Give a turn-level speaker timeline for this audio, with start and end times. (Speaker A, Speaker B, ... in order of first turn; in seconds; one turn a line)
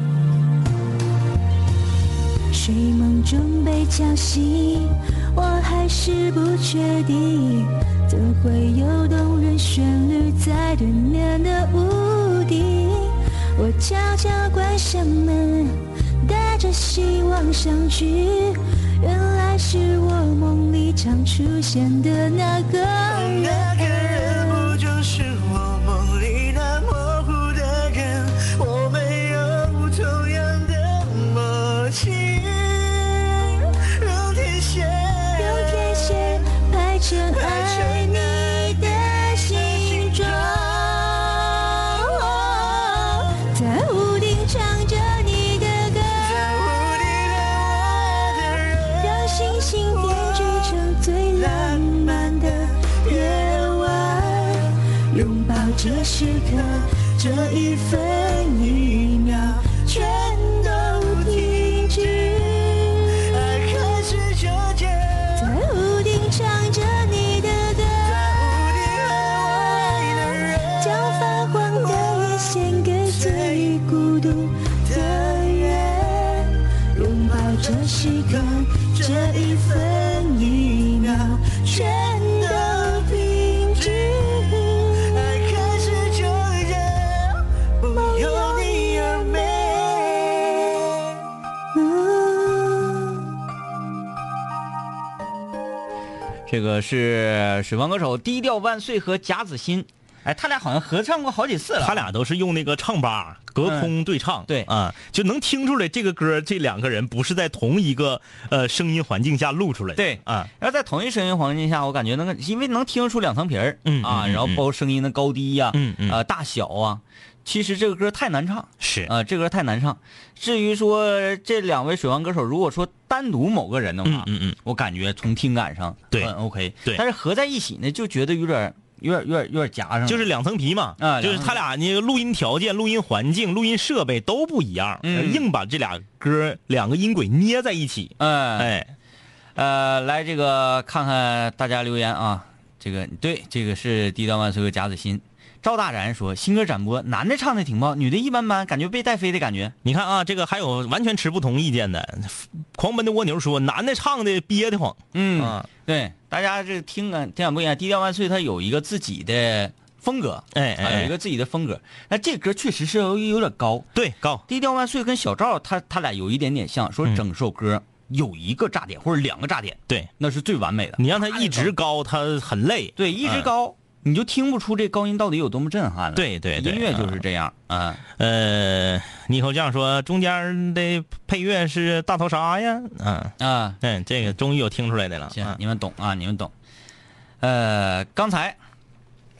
Speaker A: 2.5-24.8
Speaker B: 23.1-36.5
Speaker A: 35.4-41.2
Speaker B: 37.2-43.2
Speaker A: 42.0-46.5
Speaker B: 46.1-65.5
Speaker A: 49.0-63.2
Speaker A: 65.4-68.3
Speaker B: 68.0-73.9
Speaker A: 70.8-85.1
Speaker B: 74.8-91.1
Speaker A: 88.1-88.8
Speaker A: 91.7-93.2
Speaker C: 96.5-102.1
Speaker D: 101.8-110.5
Speaker C: 103.6-103.9
Speaker C: 110.0-130.3
Speaker D: 113.8-114.6
Speaker D: 115.7-116.2
Speaker D: 118.8-119.1
Speaker D: 124.0-124.6
Speaker D: 130.1-138.9
Speaker C: 131.0-131.6
Speaker C: 135.0-135.4
Speaker C: 138.2-138.7
Speaker C: 139.6-149.7
Speaker D: 149.8-155.7
Speaker C: 155.1-163.9
Speaker D: 160.5-161.1
Speaker D: 163.9-164.4
Speaker C: 164.5-171.7
Speaker D: 171.0-173.5
Speaker C: 173.0-178.0
Speaker D: 176.2-177.2
Speaker D: 178.2-185.6
Speaker C: 183.4-183.8
Speaker C: 185.3-186.5
Speaker C: 187.4-188.6